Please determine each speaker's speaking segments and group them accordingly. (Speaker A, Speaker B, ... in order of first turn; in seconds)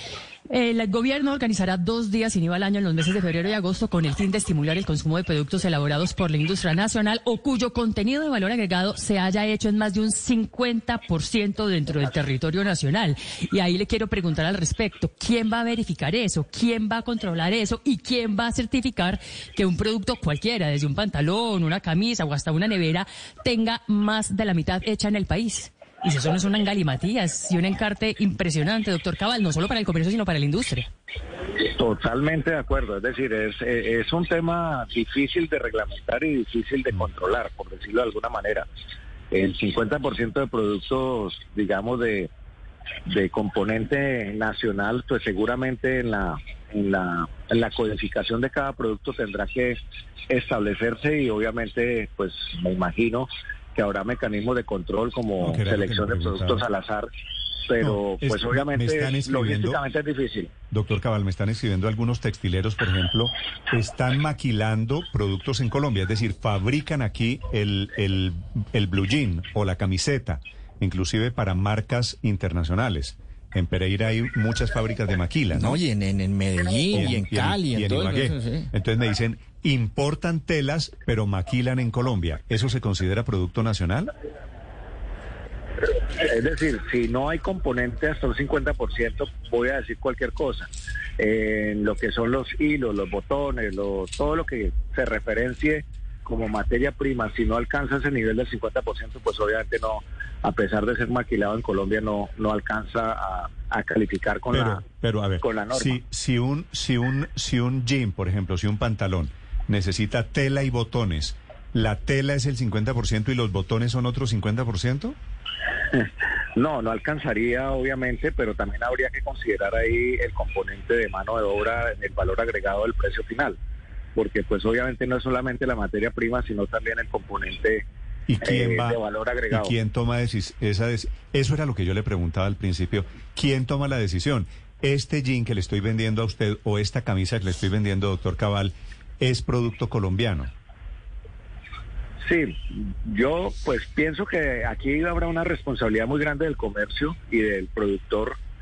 Speaker A: 0.5-30.9
Speaker B: 31.6-38.7, 39.3-42.3, 43.1-57.1, 57.7-60.5, 86.2-104.8, 105.4-106.0, 115.9-123.6, 124.2-127.8, 128.4-129.7, 142.2-148.4
Speaker C: 55.4-56.6, 57.8-59.8, 60.7-75.8, 76.9-84.1, 104.5-115.2, 128.3-129.0, 129.5-140.5
Speaker D: 75.5-78.7